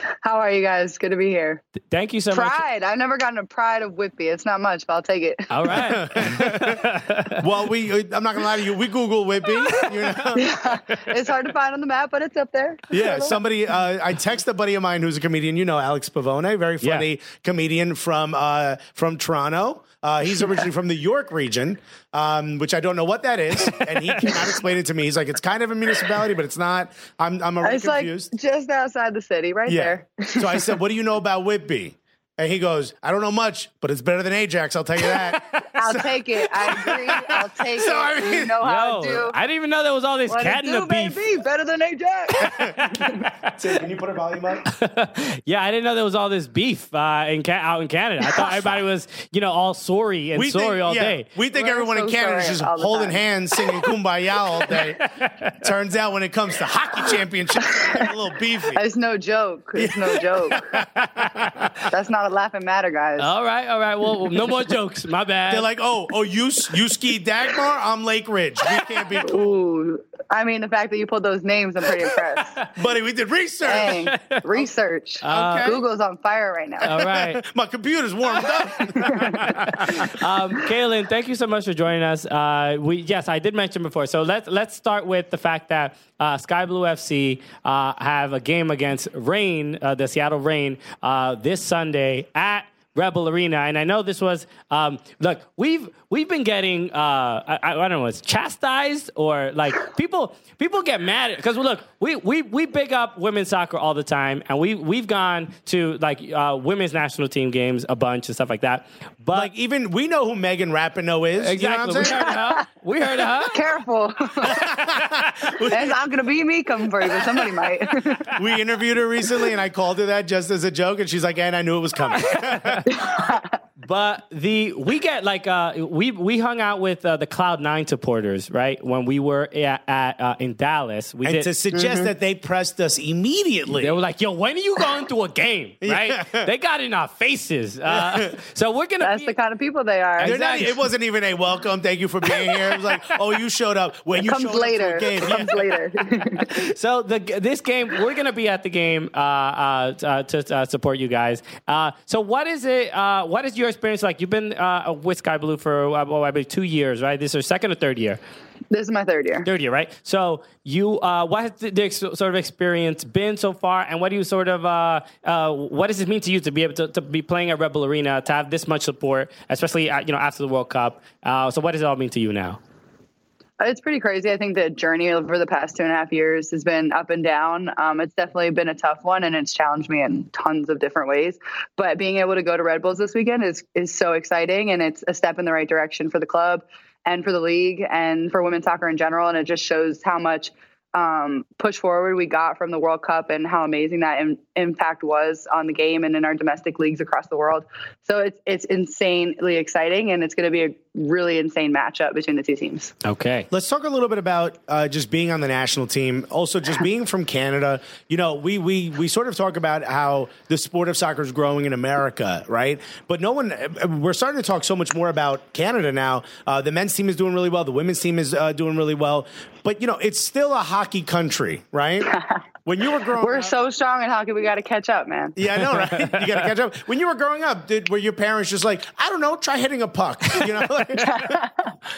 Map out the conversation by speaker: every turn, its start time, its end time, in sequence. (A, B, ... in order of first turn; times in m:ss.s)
0:00.2-0:01.6 A
0:01.9-0:02.6 B
0:02.3-0:05.9 A
0:05.5-0:07.4 B
0:05.7-0:06.8 C
0:07.4-0:10.5 C
0:10.3-0:13.4 A
0:12.9-0:28.3 C
0:23.7-0:24.4 B
0:27.6-0:30.8 A
0:29.7-0:38.6 C
0:35.7-0:39.4 A
0:38.6-0:41.2 B
0:40.3-0:43.3 A
0:42.3-0:43.5 B
0:42.4-0:42.8 C
0:43.4-0:44.7 C
0:44.7-0:51.3 B
0:50.4-0:55.0 C
0:51.5-0:53.2 A
0:55.0-0:55.6 B
0:55.6-0:58.8 C
0:57.7-0:58.1 A
0:58.7-1:00.8 A
0:59.8-1:01.5 C
1:01.0-1:01.5 B
1:01.9-1:03.3 A
1:03.2-1:05.7 B
1:05.5-1:09.4 C
1:09.2-1:12.7 A
1:12.8-1:14.0 C
1:13.6-1:16.9 A
1:13.8-1:14.5 B
1:15.2-1:15.7 B
1:15.3-1:15.8 C
1:16.8-1:20.1 C
1:16.8-1:17.4 B
1:18.9-1:20.0 A
1:19.2-1:49.5 B
1:49.3-1:52.3 C
1:51.4-1:53.6 B
1:53.4-1:54.7 A
1:54.4-1:55.9 C
1:55.7-1:58.4 A
1:58.3-2:02.9 C
2:02.9-2:03.5 A
2:03.8-2:11.5 B
2:11.2-2:13.9 C
2:11.7-2:12.1 A
2:13.8-2:19.3 B
2:15.8-2:16.5 C
2:17.9-2:18.3 C
2:19.0-2:20.4 A
2:20.2-2:20.8 B
2:20.2-2:25.7 C
2:24.2-2:26.5 A
2:26.4-2:38.2 B
2:38.7-2:39.5 A
2:39.4-2:52.6 B
2:53.6-3:22.9 A
3:23.0-3:23.5 B
3:23.5-3:42.1 C
3:42.1-3:42.4 A
3:42.6-3:43.5 C
3:43.1-3:45.4 A
3:45.4-3:51.4 C
3:51.0-3:51.7 A